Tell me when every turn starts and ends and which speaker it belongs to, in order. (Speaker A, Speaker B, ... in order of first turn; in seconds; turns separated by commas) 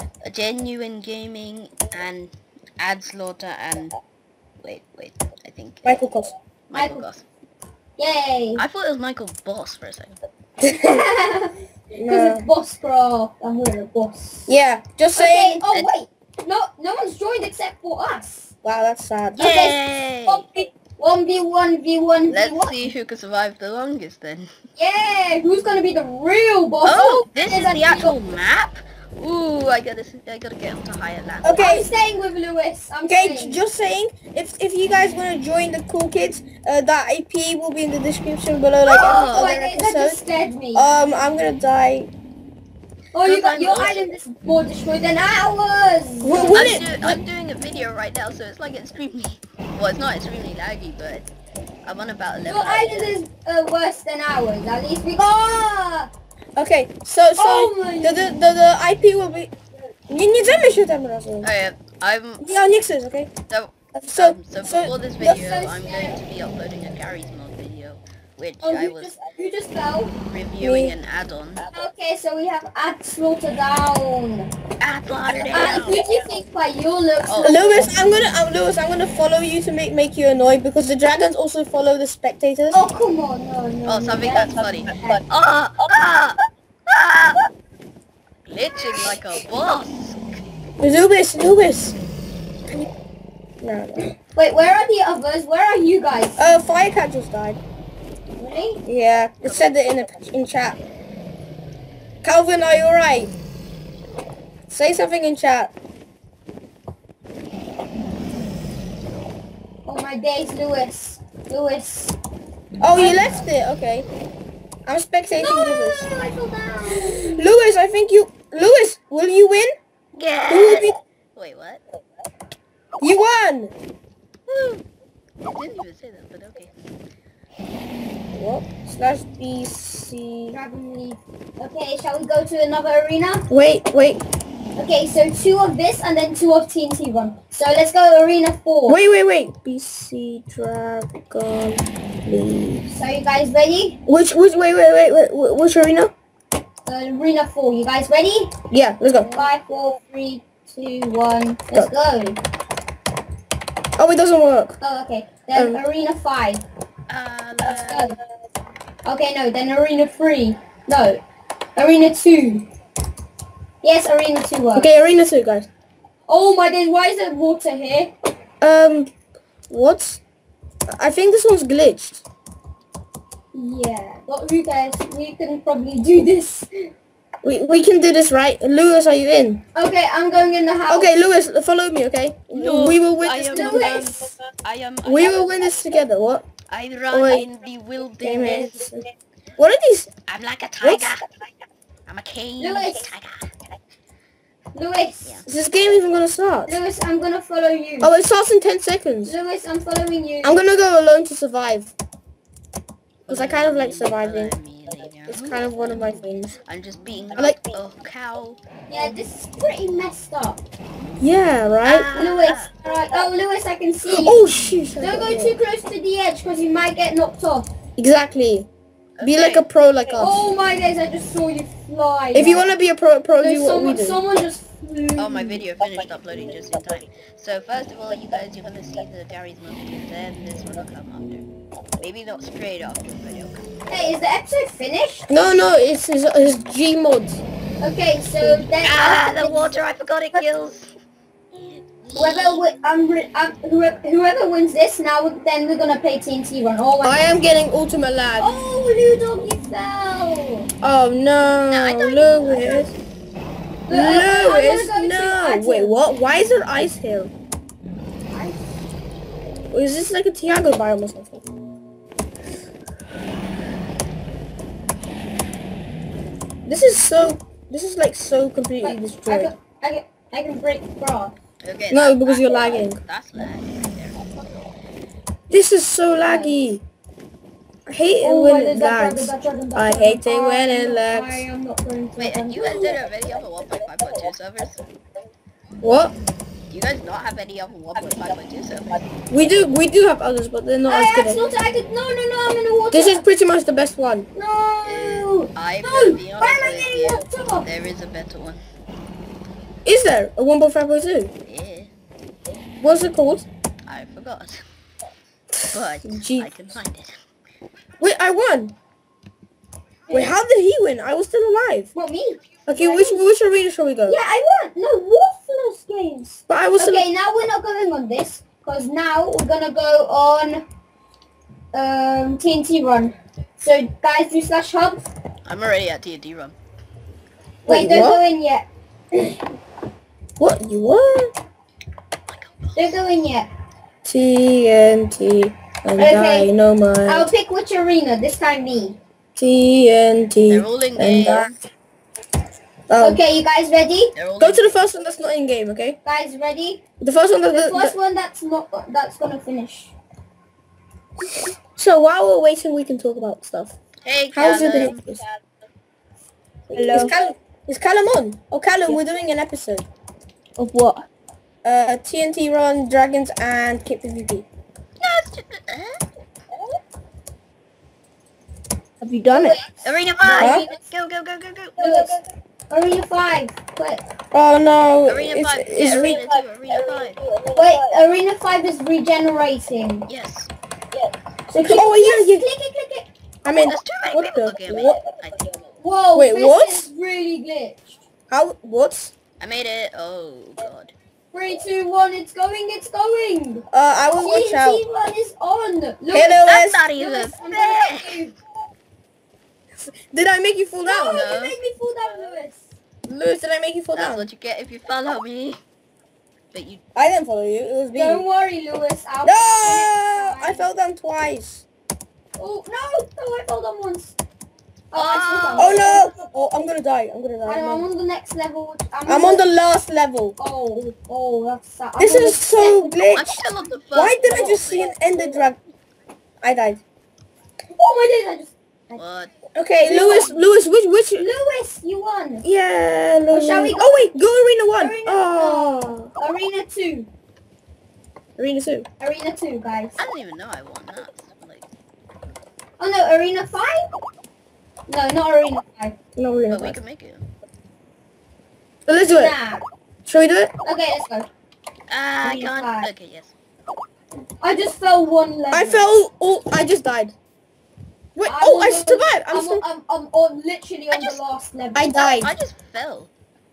Speaker A: 0.2-3.9, Speaker A: 4.6-6.0, Speaker B: 5.8-6.3, Speaker A: 6.7-7.2, Speaker C: 6.7-7.1, Speaker C: 8.0-8.6, Speaker A: 8.6-10.2, Speaker B: 10.6-11.0, Speaker C: 10.8-14.5, Speaker B: 11.9-12.5, Speaker B: 14.5-15.6, Speaker C: 15.2-18.5, Speaker B: 18.6-19.6, Speaker A: 19.4-20.4, Speaker C: 19.4-22.9, Speaker A: 22.3-24.5, Speaker C: 24.8-28.2, Speaker A: 26.8-31.6, Speaker B: 31.4-31.9, Speaker C: 31.4-33.6, Speaker B: 33.0-40.2, Speaker A: 38.9-39.5, Speaker C: 38.9-40.9, Speaker B: 40.7-42.1, Speaker C: 43.1-46.9, Speaker A: 43.2-44.0, Speaker B: 46.2-47.2, Speaker A: 46.5-51.3, Speaker A: 51.8-53.1, Speaker C: 52.5-56.1, Speaker B: 56.5-59.5, Speaker C: 57.4-58.3, Speaker B: 60.1-61.5, Speaker A: 61.4-62.5, Speaker B: 62.4-63.3, Speaker A: 63.5-69.1, Speaker B: 63.9-65.4, Speaker C: 65.2-66.2, Speaker C: 68.6-70.1, Speaker A: 70.3-71.7, Speaker B: 70.6-70.9, Speaker C: 71.7-74.5, Speaker A: 74.8-76.0, Speaker C: 75.5-78.0, Speaker A: 77.2-77.5, Speaker B: 77.4-82.8, Speaker C: 82.7-85.2, Speaker A: 83.9-87.4, Speaker A: 88.4-90.2, Speaker B: 90.8-92.0, Speaker B: 93.6-94.0, Speaker C: 94.3-96.5, Speaker B: 96.4-97.6, Speaker C: 98.4-98.8, Speaker B: 98.8-100.8, Speaker B: 102.2-103.3, Speaker B: 104.7-105.7, Speaker C: 109.8-112.2, Speaker B: 112.8-114.1, Speaker C: 112.9-113.4, Speaker B: 114.8-116.1, Speaker C: 115.3-117.4, Speaker B: 117.0-119.7, Speaker A: 120.1-121.8, Speaker B: 120.5-121.0, Speaker B: 123.0-123.7, Speaker A: 124.5-124.8, Speaker A: 125.4-126.7, Speaker B: 128.3-130.6, Speaker C: 130.5-133.5, Speaker B: 133.5-134.2, Speaker C: 134.8-139.0, Speaker B: 138.8-142.9, Speaker C: 142.9-144.0, Speaker B: 144.1-146.1, Speaker C: 146.8-148.6, Speaker B: 148.7-149.5, Speaker C: 149.2-152.4, Speaker B: 154.0-154.8, Speaker C: 154.8-156.6, Speaker B: 155.5-155.8, Speaker A: 157.1-158.1, Speaker C: 157.7-158.2, Speaker C: 159.0-161.2, Speaker C: 161.8-162.7, Speaker C: 163.8-164.9, Speaker B: 164.7-165.7, Speaker C: 166.3-168.1, Speaker B: 168.6-169.1, Speaker B: 169.7-170.2, Speaker B: 170.9-172.2, Speaker C: 173.5-176.9, Speaker B: 177.4-179.6, Speaker C: 179.7-181.1, Speaker B: 180.9-184.1, Speaker A: 182.5-185.6, Speaker C: 183.5-184.3, Speaker B: 185.0-186.4, Speaker A: 186.7-188.8, Speaker B: 187.1-187.5, Speaker B: 188.2-189.0, Speaker B: 189.6-190.1, Speaker A: 190.3-191.2, Speaker B: 190.8-191.2, Speaker A: 192.1-193.5, Speaker C: 192.6-193.1, Speaker C: 194.7-195.4, Speaker B: 195.4-196.8, Speaker C: 196.7-198.1, Speaker B: 198.0-199.3, Speaker C: 199.2-200.6, Speaker B: 200.4-201.9, Speaker A: 203.3-208.6, Speaker B: 203.3-204.5, Speaker B: 205.3-206.6, Speaker C: 208.9-210.6, Speaker B: 211.2-212.1, Speaker A: 211.8-212.7, Speaker C: 212.1-214.4, Speaker B: 214.1-215.6, Speaker C: 215.0-217.7, Speaker B: 218.0-218.7, Speaker A: 219.2-219.6, Speaker B: 219.2-220.4, Speaker C: 220.2-222.7, Speaker B: 222.3-224.2, Speaker C: 223.4-225.6, Speaker A: 225.2-231.4, Speaker A: 232.0-233.7, Speaker C: 233.9-235.3, Speaker B: 235.3-237.4, Speaker C: 237.8-239.8, Speaker A: 238.8-240.9, Speaker A: 242.0-242.6, Speaker C: 242.1-247.4, Speaker B: 247.0-248.5, Speaker C: 248.4-250.7, Speaker B: 250.8-252.9, Speaker A: 251.7-252.6, Speaker C: 253.9-255.9, Speaker B: 253.9-257.3, Speaker C: 258.3-258.6, Speaker B: 259.7-261.4, Speaker B: 266.6-269.5, Speaker C: 268.8-271.4, Speaker A: 271.6-274.3, Speaker B: 271.9-273.0, Speaker B: 275.5-276.8, Speaker C: 276.2-276.7, Speaker B: 277.9-281.4, Speaker C: 278.2-283.0, Speaker A: 282.2-284.8, Speaker B: 285.8-286.1, Speaker A: 286.7-289.0, Speaker B: 289.3-291.4, Speaker C: 290.8-293.2, Speaker B: 292.9-294.3, Speaker C: 294.3-297.7, Speaker A: 294.8-298.6, Speaker B: 299.8-301.3, Speaker A: 301.4-301.9, Speaker B: 302.8-303.4, Speaker A: 303.9-304.6, Speaker B: 305.6-306.6, Speaker A: 305.7-307.1, Speaker B: 308.0-308.7, Speaker C: 310.1-310.3, Speaker B: 310.1-311.9, Speaker C: 311.9-313.2, Speaker B: 312.6-314.2, Speaker C: 314.1-320.6, Speaker B: 316.5-317.0, Speaker C: 321.7-325.0, Speaker A: 325.4-326.6, Speaker C: 327.6-329.4, Speaker B: 327.7-328.2, Speaker B: 330.4-331.3, Speaker A: 332.3-333.0, Speaker C: 332.8-333.5, Speaker B: 334.0-337.3, Speaker C: 336.0-336.5, Speaker C: 337.1-339.0, Speaker B: 339.4-341.5, Speaker A: 340.5-341.6, Speaker B: 342.9-343.2, Speaker C: 343.0-344.1, Speaker A: 344.1-344.8, Speaker B: 344.4-346.0, Speaker C: 346.0-346.8, Speaker B: 347.0-347.9, Speaker C: 347.5-349.9, Speaker B: 351.3-353.8, Speaker A: 354.0-355.1, Speaker B: 354.3-355.2, Speaker B: 356.7-359.9, Speaker C: 356.7-357.1, Speaker C: 360.6-361.0, Speaker B: 361.6-364.5, Speaker A: 365.0-366.0, Speaker B: 369.0-369.6, Speaker C: 369.3-370.8, Speaker A: 369.8-372.1, Speaker B: 370.4-370.7, Speaker C: 371.8-374.0, Speaker B: 374.3-376.2, Speaker A: 375.1-377.2, Speaker C: 377.5-380.1, Speaker A: 380.1-380.5, Speaker B: 381.5-382.4, Speaker C: 381.6-383.1, Speaker B: 383.4-385.0, Speaker A: 383.6-385.6, Speaker C: 385.8-388.0, Speaker B: 386.1-386.9, Speaker B: 388.3-389.1, Speaker A: 389.4-390.9, Speaker C: 391.3-393.6, Speaker B: 393.7-394.8, Speaker C: 394.2-398.4, Speaker B: 396.1-396.8, Speaker A: 396.4-398.2, Speaker B: 399.8-401.2, Speaker C: 400.8-402.7, Speaker A: 401.1-401.6, Speaker B: 403.0-404.2, Speaker A: 403.9-405.6, Speaker A: 406.5-406.8, Speaker B: 406.9-408.2, Speaker C: 407.9-410.6, Speaker B: 409.2-411.6, Speaker C: 412.4-414.1, Speaker C: 414.9-416.1, Speaker A: 414.9-415.8, Speaker B: 415.6-417.9, Speaker C: 417.4-419.4, Speaker B: 419.1-420.4, Speaker C: 420.4-423.0, Speaker B: 422.0-423.4, Speaker A: 423.1-424.9, Speaker B: 423.9-425.6, Speaker B: 426.4-426.8, Speaker C: 427.7-429.0, Speaker A: 428.9-429.3, Speaker B: 429.5-431.3, Speaker C: 429.8-430.4, Speaker C: 431.2-432.4, Speaker B: 432.4-436.1, Speaker C: 433.3-434.1, Speaker C: 434.8-437.1, Speaker B: 438.4-438.9, Speaker C: 439.0-440.0, Speaker A: 440.0-441.6, Speaker C: 442.8-443.9, Speaker C: 444.9-445.9, Speaker B: 446.1-446.8, Speaker A: 446.5-447.2, Speaker B: 448.9-449.3, Speaker C: 448.9-449.6, Speaker B: 450.1-450.5, Speaker C: 450.6-451.3, Speaker A: 451.9-453.3, Speaker C: 452.2-452.9, Speaker C: 454.4-455.9, Speaker B: 455.5-457.1, Speaker B: 458.1-459.6, Speaker C: 458.2-461.9, Speaker A: 460.9-461.2, Speaker B: 461.7-462.3, Speaker A: 461.9-463.1